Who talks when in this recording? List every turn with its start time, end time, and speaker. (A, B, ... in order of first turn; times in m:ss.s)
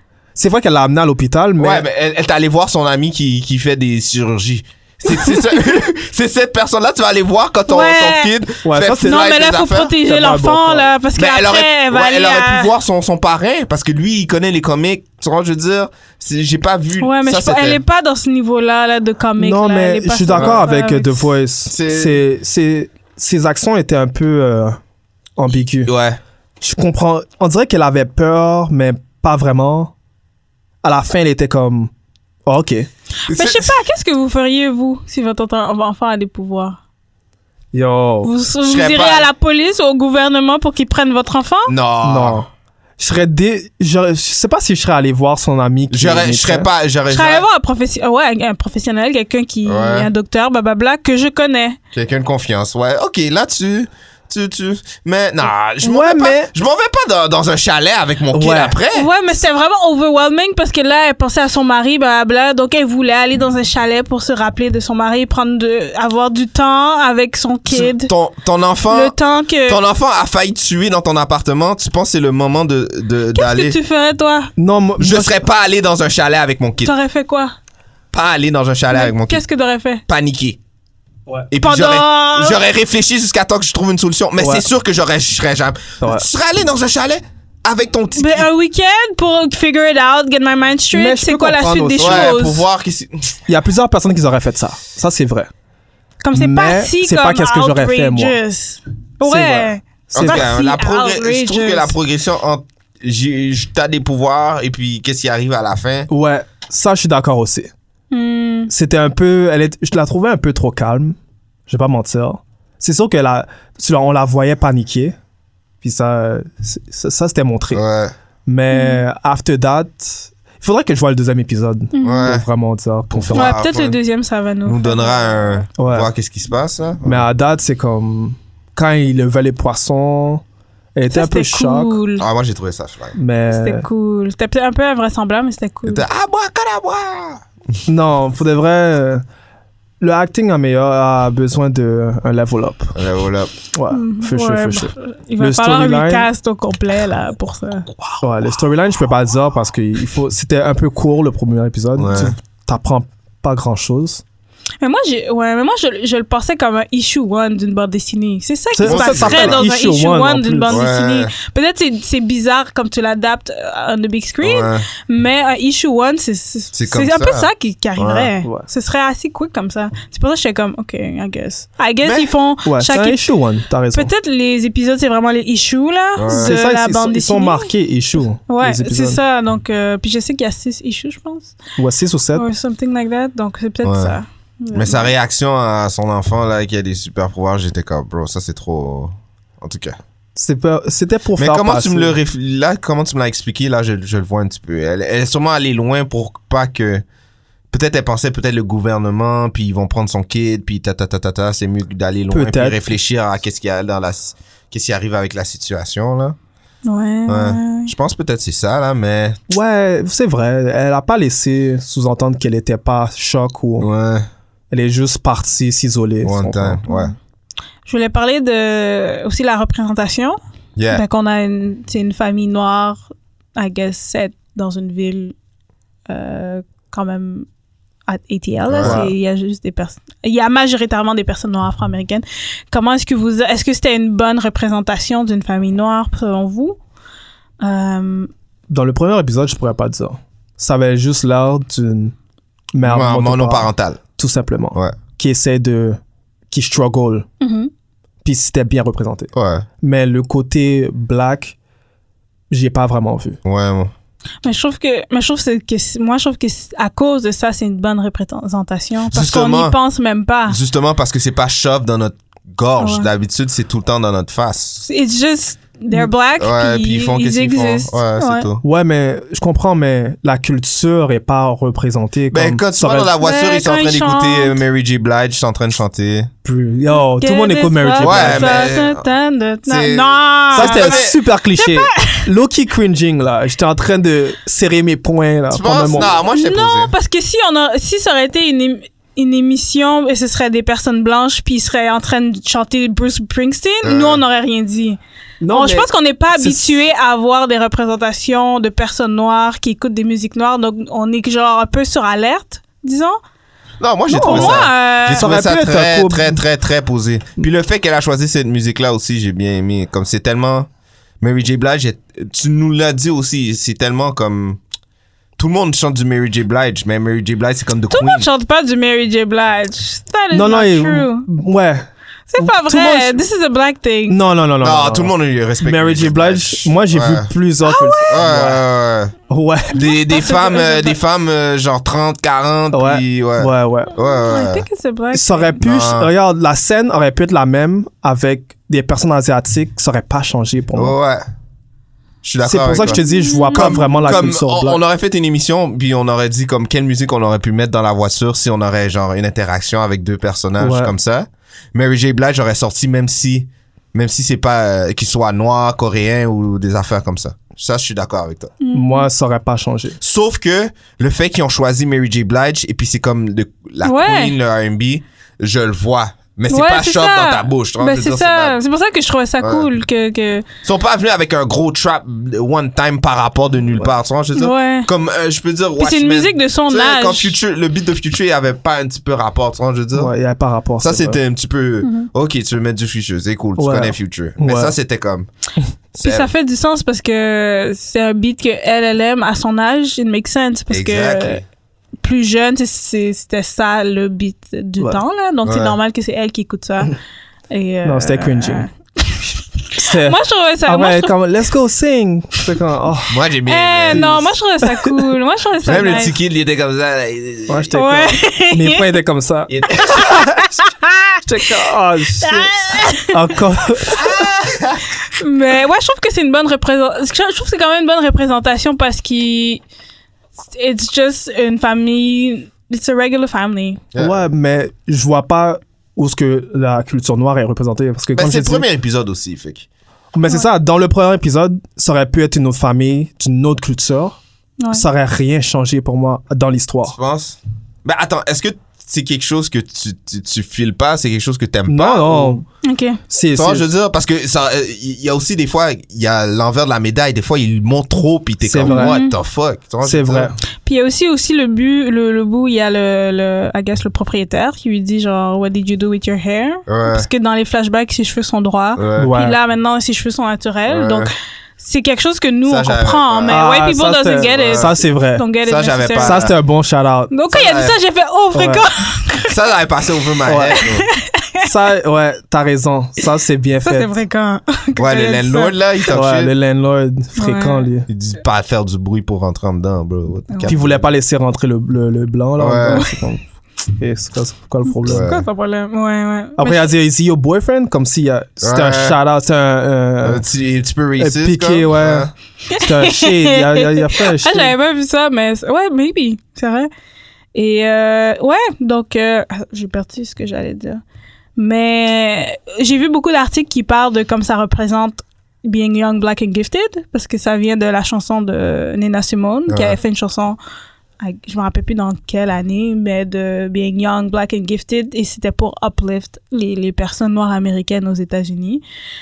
0:00.4-0:01.8 A
0:01.6-0:10.0 B
0:07.7-0:08.3 C
0:08.6-0:09.3 A
0:09.0-0:12.7 C
0:10.0-0:10.9 A
0:11.2-0:17.8 B
0:17.0-0:21.3 C
0:19.4-0:24.8 A
0:20.3-0:20.6 B
0:21.7-0:22.2 B
0:25.4-0:25.9 A
0:25.8-0:26.2 B
0:26.6-0:29.9 A
0:30.8-0:31.9 A
0:32.4-0:32.9 A
0:33.3-0:36.8 C
0:33.3-0:33.7 B
0:37.7-0:38.3 A
0:38.2-0:41.7 C
0:38.6-0:39.3 B
0:41.7-0:42.4 B
0:42.0-0:42.5 A
0:43.0-0:46.7 A
0:45.9-0:47.4 B
0:47.1-0:51.8 C
0:49.6-0:50.1 B
0:51.9-0:59.1 B
0:55.8-0:56.5 A
0:58.3-0:58.8 A
0:58.9-1:08.1 C
1:07.7-1:13.8 B
1:08.9-1:09.8 C
1:13.3-1:14.5 C
1:14.6-1:15.4 A
1:15.0-1:16.9 B
1:16.8-1:17.5 C
1:18.1-1:19.4 B
1:18.9-1:20.0 C
1:20.1-1:20.6 B
1:21.5-1:28.5 B
1:21.6-1:22.6 C
1:24.4-1:24.6 A
1:26.0-1:26.3 A
1:28.1-1:32.6 C
1:30.9-1:32.4 A
1:32.0-1:33.4 B
1:33.5-1:35.5 A
1:36.2-1:41.9 C
1:36.3-1:38.4 A
1:39.2-1:40.5 A
1:40.1-1:46.1 B
1:46.1-1:47.7 A
1:48.1-1:48.7 C
1:48.7-1:51.2 A
1:51.7-1:55.1 A
1:55.8-1:57.8 A
1:57.7-1:58.1 B
1:58.5-2:03.6 A
1:58.7-1:59.0 C
2:01.9-2:02.3 C
2:02.0-2:02.4 B
2:03.1-2:04.0 B
2:03.3-2:05.6 C
2:04.6-2:07.2 B
2:05.8-2:06.1 A
2:07.0-2:10.4 A
2:10.9-2:12.0 A
2:11.1-2:12.2 C
2:12.2-2:13.2 B
2:13.2-2:13.8 A
2:13.5-2:16.0 C
2:15.8-2:17.4 B
2:17.9-2:19.2 A
2:20.0-2:22.9 A
2:22.9-2:23.5 B
2:23.7-2:26.3 A
2:23.9-2:27.9 C
2:27.9-2:28.2 B
2:28.2-2:34.2 A
2:32.0-2:32.3 B
2:34.8-2:53.3 C
2:38.7-2:40.8 A
2:38.8-2:39.6 B
2:40.7-2:41.3 B
2:44.4-2:44.9 B
2:46.7-2:48.3 B
2:52.0-2:52.3 B
2:52.6-2:54.1 A
2:53.9-2:57.7 C
2:56.2-2:56.6 B
2:56.3-2:59.2 A
2:58.5-3:01.6 C
3:01.8-3:02.4 A
3:02.3-3:05.1 C
3:03.8-3:04.2 B
3:04.7-3:09.9 B
3:10.4-3:12.2 A
3:11.4-3:17.0 B
3:17.7-3:26.4 B
3:22.3-3:22.8 A
3:26.8-3:27.9 C
3:27.3-3:29.4 B
3:29.5-3:33.9 A
3:33.8-3:34.3 B
3:34.7-3:36.8 A
3:36.2-3:37.1 B
3:36.9-3:37.1 C
3:37.8-3:40.4 C
3:40.8-3:41.0 B
3:40.9-3:45.3 C
3:46.1-3:47.5 C
3:48.1-3:56.8 C
3:48.7-3:49.0 B
3:48.8-3:49.1 A
3:57.6-3:58.3 C
3:58.7-4:02.1 A
4:02.7-4:06.0 A
4:02.8-4:04.0 B
4:06.5-4:07.3 A
4:07.4-4:07.7 C
4:08.2-4:11.6 A
4:09.3-4:09.6 B
4:12.5-4:13.4 A
4:13.4-4:13.9 B
4:14.4-4:20.6 C
4:19.1-4:19.8 B
4:20.5-4:24.8 B
4:22.8-4:23.1 C
4:24.8-4:28.5 C
4:26.4-4:28.6 B
4:28.6-4:33.1 A
4:32.3-4:36.3 B
4:33.2-4:34.6 C
4:36.4-4:38.7 A
4:36.9-4:42.2 C
4:38.0-4:39.0 B
4:39.6-4:41.2 B
4:40.5-4:46.1 A
4:45.5-4:46.9 B
4:46.2-4:55.0 C
4:53.8-4:54.2 B
4:55.4-4:56.8 A
4:55.5-5:03.2 C
5:03.8-5:10.7 B
5:04.1-5:06.4 A
5:04.1-5:05.3 C
5:11.2-5:14.6 B
5:15.4-5:18.3 B
5:17.9-5:21.3 C
5:20.3-5:23.2 A
5:22.3-5:24.2 C
5:24.1-5:28.6 A
5:24.6-5:27.3 B
5:27.6-5:28.2 C
5:28.1-5:29.1 B
5:29.3-5:29.8 A
5:29.7-5:34.6 B
5:29.7-5:31.0 C
5:32.7-5:33.9 A
5:34.2-5:35.6 C
5:35.1-5:40.9 A
5:35.6-5:36.1 B
5:40.7-5:41.2 B
5:42.2-5:43.0 B
5:42.4-5:44.8 A
5:42.9-5:44.0 C
5:43.5-5:58.5 B
5:50.6-5:50.9 A
5:58.6-5:59.1 C
5:58.7-6:00.0 A
6:00.0-6:08.6 B
6:03.8-6:04.3 C
6:06.5-6:10.4 C
6:09.4-6:09.7 B
6:10.6-6:20.1 B
6:14.4-6:14.9 C
6:15.8-6:17.4 C
6:19.9-6:21.2 A
6:20.8-6:25.3 B
6:21.8-6:22.1 C
6:23.6-6:24.7 A
6:25.9-6:26.3 B
6:26.0-6:31.4 C
6:30.7-6:31.4 B
6:32.0-6:36.9 C
6:35.4-6:35.8 B
6:37.5-6:41.1 C
6:37.8-6:38.7 A
6:39.8-6:43.2 A
6:43.1-6:44.3 B
6:43.4-6:46.1 C
6:45.6-6:47.7 B
6:47.5-6:50.3 A
6:47.7-6:48.8 C
6:49.5-6:50.2 B
6:50.0-6:51.2 C
6:51.2-6:54.0 A
6:52.2-6:53.1 C
6:54.0-6:54.8 B
6:55.1-6:59.6 C
7:00.4-7:03.8 C
7:03.9-7:04.2 B
7:04.0-7:08.6 A
7:08.1-7:09.7 B
7:10.1-7:14.2 A
7:14.7-7:16.9 A
7:16.9-7:22.4 B
7:21.7-7:22.4 A
7:22.6-7:23.0 C
7:23.1-7:23.6 A
7:23.3-7:30.3 B
7:28.4-7:28.9 A
7:28.6-7:29.1 C
7:29.8-7:30.4 A
7:30.6-7:46.2 C
7:36.7-7:37.1 B
7:38.8-7:39.1 B
7:39.0-7:39.4 A
7:40.7-7:41.1 B
7:42.5-7:43.4 B
7:43.3-7:45.2 A
7:44.2-7:44.8 B
7:45.4-7:46.3 B
7:46.0-7:47.1 A
7:47.1-7:49.3 C
7:47.3-7:47.8 B
7:48.3-7:48.6 A
7:49.3-7:50.9 B
7:50.2-7:50.6 A
7:50.6-7:51.5 C
7:51.4-7:53.9 A
7:53.6-7:55.6 C
7:54.8-7:56.3 B
7:55.9-7:57.9 A
7:57.2-7:57.7 C
7:57.9-8:00.9 B
8:00.4-8:05.0 A
8:02.4-8:02.9 B
8:04.7-8:06.7 C
8:04.8-8:05.2 B
8:06.4-8:10.2 A
8:08.4-8:09.0 B
8:10.0-8:12.1 B
8:11.0-8:14.5 A
8:12.5-8:16.7 C
8:17.3-8:20.8 C
8:21.4-8:30.4 C
8:29.5-8:29.8 B
8:31.0-8:38.6 C